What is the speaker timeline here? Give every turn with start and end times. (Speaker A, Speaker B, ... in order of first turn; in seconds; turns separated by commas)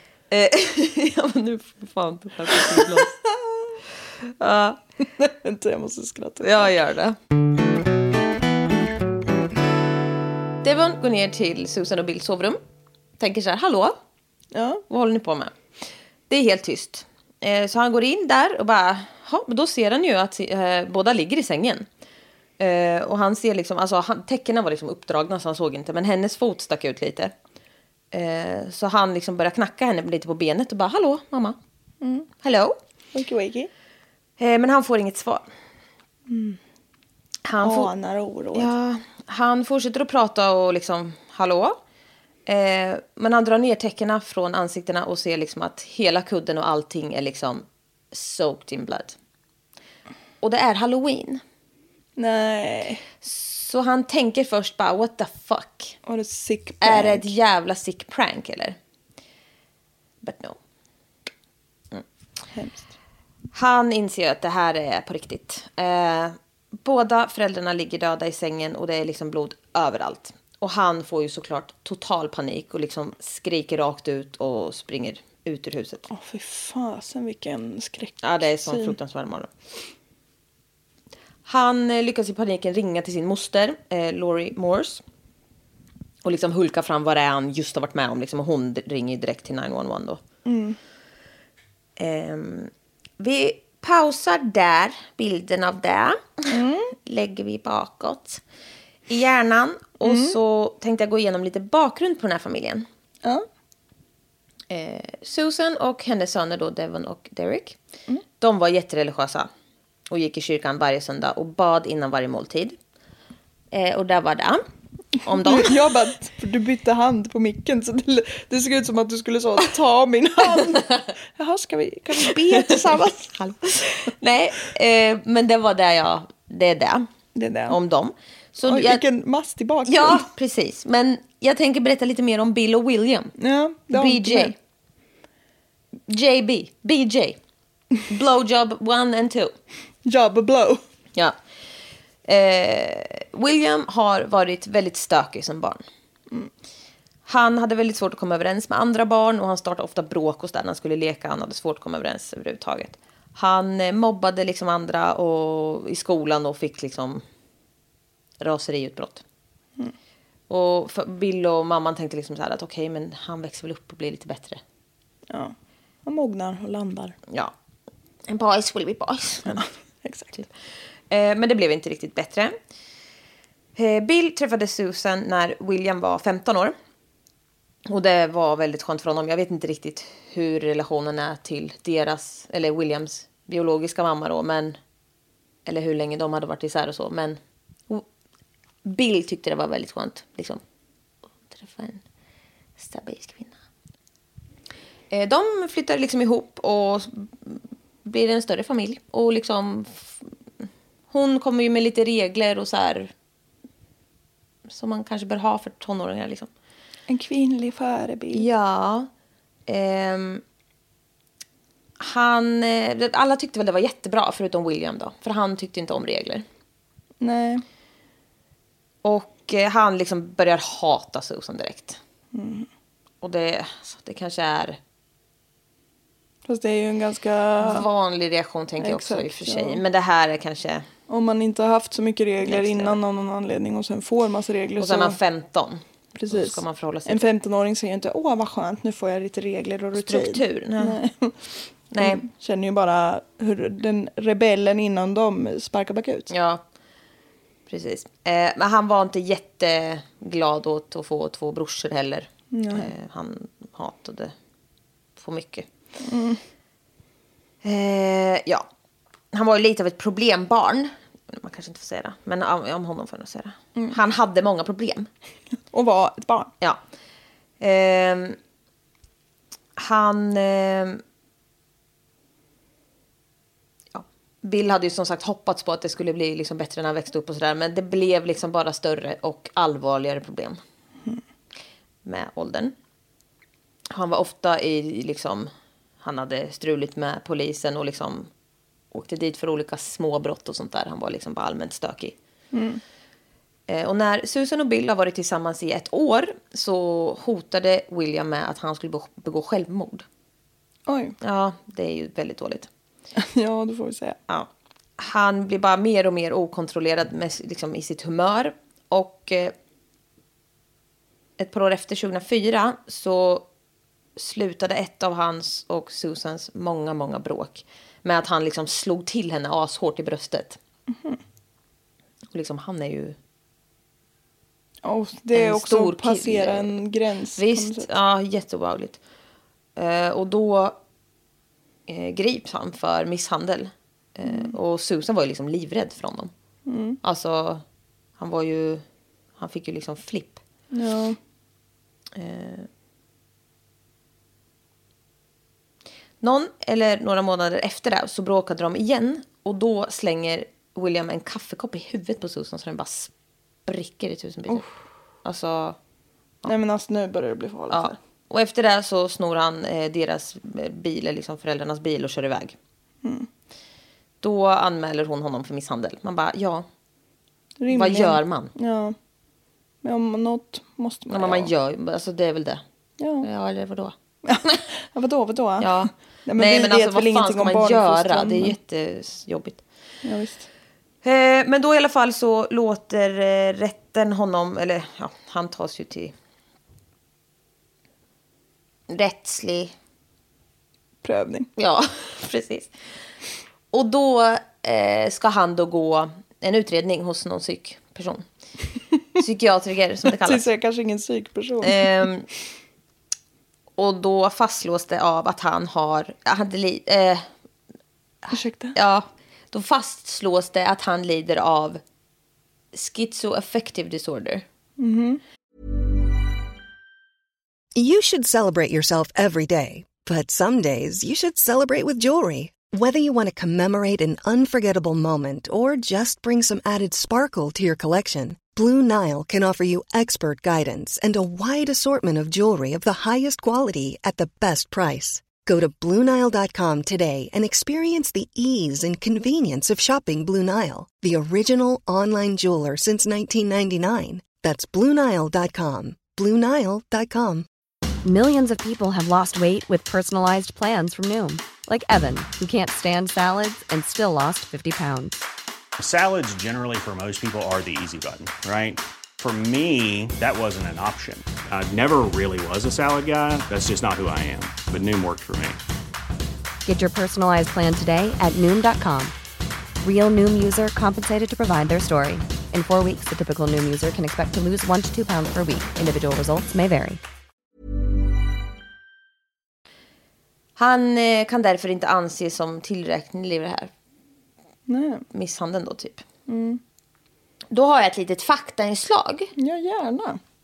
Speaker A: 0.3-3.1, Speaker B: 2.6-3.1, Speaker A: 4.4-4.8, Speaker B: 5.2-6.7, Speaker A: 6.4-7.2, Speaker A: 10.6-12.6, Speaker A: 13.2-14.0, Speaker B: 14.5-14.8, Speaker A: 14.9-15.5, Speaker A: 16.3-21.9, Speaker A: 22.6-27.3, Speaker A: 28.1-31.6, Speaker B: 32.0-32.3, Speaker A: 32.4-32.8, Speaker B: 33.1-33.7, Speaker A: 34.4-35.5, Speaker B: 36.3-36.6, Speaker A: 37.5-37.9, Speaker B: 37.6-38.7, Speaker A: 38.5-41.8, Speaker A: 42.5-49.2, Speaker A: 50.4-51.4, Speaker B: 52.2-53.0, Speaker A: 53.2-56.0, Speaker B: 56.1-57.3, Speaker A: 56.8-58.8, Speaker A: 60.2-60.6, Speaker B: 62.5-62.9, Speaker A: 63.5-76.1, Speaker B: 76.1-79.0, Speaker A: 78.2-79.5, Speaker A: 81.5-85.0, Speaker A: 86.2-90.2, Speaker B: 90.5-90.8, Speaker A: 92.0-96.5, Speaker B: 96.5-96.9, Speaker A: 97.1-98.4, Speaker A: 99.1-102.9, Speaker B: 100.0-100.4, Speaker A: 104.7-107.8, Speaker A: 108.4-109.5, Speaker A: 110.1-112.8, Speaker A: 113.7-114.6, Speaker A: 115.2-115.9, Speaker B: 115.3-123.3, Speaker A: 123.3-127.1, Speaker B: 127.3-127.8, Speaker A: 127.7-129.0, Speaker B: 128.7-130.2, Speaker A: 129.9-133.3, Speaker B: 133.4-134.6, Speaker A: 133.9-134.6, Speaker A: 136.1-137.4, Speaker A: 138.1-139.5, Speaker B: 140.1-140.8, Speaker A: 142.3-145.8, Speaker A: 147.3-157.2, Speaker A: 158.4-159.2, Speaker A: 160.5-164.6, Speaker B: 165.3-167.2, Speaker A: 168.3-169.6, Speaker B: 169.5-170.3, Speaker A: 171.1-172.6, Speaker A: 173.8-176.8, Speaker A: 177.9-184.8, Speaker A: 185.7-187.4, Speaker A: 188.8-190.6, Speaker A: 191.5-192.0, Speaker A: 192.8-193.6, Speaker A: 195.1-200.2, Speaker A: 201.1-203.1, Speaker A: 204.7-206.5, Speaker B: 207.1-208.5, Speaker A: 208.3-209.1, Speaker A: 209.7-210.4, Speaker A: 212.0-216.4, Speaker B: 217.2-217.6, Speaker A: 219.0-222.0, Speaker B: 222.3-222.7, Speaker A: 223.2-224.8, Speaker B: 226.5-227.9, Speaker A: 227.6-230.9, Speaker B: 228.8-229.8, Speaker B: 231.1-235.2, Speaker A: 232.4-233.0, Speaker A: 234.8-237.3, Speaker B: 236.2-246.3, Speaker A: 239.9-241.0, Speaker A: 241.9-242.2, Speaker A: 246.3-246.6, Speaker A: 247.7-254.3, Speaker B: 252.5-252.9, Speaker A: 255.2-255.7, Speaker B: 256.0-256.4, Speaker A: 257.6-258.7, Speaker A: 259.3-265.1, Speaker B: 265.7-266.5, Speaker A: 267.6-268.4, Speaker A: 269.8-271.0, Speaker A: 273.9-280.6, Speaker A: 282.1-282.7, Speaker A: 283.9-285.5, Speaker A: 286.0-288.3, Speaker A: 288.9-292.1, Speaker B: 292.5-292.8, Speaker A: 293.7-300.1, Speaker B: 300.9-301.2, Speaker A: 301.2-302.7, Speaker B: 303.2-304.2, Speaker A: 305.0-309.5, Speaker A: 311.4-313.5, Speaker A: 314.2-320.6, Speaker B: 320.9-321.2, Speaker A: 322.3-323.2, Speaker B: 324.8-327.9, Speaker A: 325.3-326.8, Speaker A: 327.4-329.0, Speaker A: 329.8-330.8, Speaker A: 331.9-336.3, Speaker B: 334.3-334.5, Speaker B: 336.7-337.0, Speaker A: 337.0-337.6, Speaker A: 338.2-338.8, Speaker A: 339.4-340.4, Speaker B: 340.7-341.2, Speaker A: 342.1-342.7, Speaker A: 346.2-353.1, Speaker A: 353.7-354.7, Speaker A: 355.2-355.8, Speaker B: 356.4-358.0, Speaker A: 357.7-362.6, Speaker A: 364.2-366.7, Speaker B: 367.6-369.0, Speaker A: 367.7-368.5, Speaker B: 369.8-371.5, Speaker A: 371.1-372.6, Speaker B: 373.0-373.3, Speaker A: 373.2-373.9, Speaker B: 374.2-378.6, Speaker A: 375.6-379.6, Speaker B: 380.0-380.5, Speaker A: 381.0-386.1, Speaker A: 388.9-389.7, Speaker B: 391.0-391.5, Speaker A: 391.6-392.7, Speaker A: 393.7-398.2, Speaker A: 399.2-400.4, Speaker B: 400.2-402.1, Speaker A: 401.6-402.3, Speaker A: 403.8-407.3, Speaker A: 408.2-411.8, Speaker B: 408.3-408.8, Speaker A: 412.7-414.4, Speaker B: 414.8-415.2, Speaker C: 417.8-447.5, Speaker D: 448.0-455.2, Speaker E: 455.8-465.6, Speaker D: 466.7-469.1, Speaker D: 469.8-477.0, Speaker A: 480.6-483.7, Speaker B: 484.7-485.1, Speaker A: 485.1-486.0, Speaker B: 486.3-486.6, Speaker A: 487.5-489.3, Speaker B: 489.4-490.2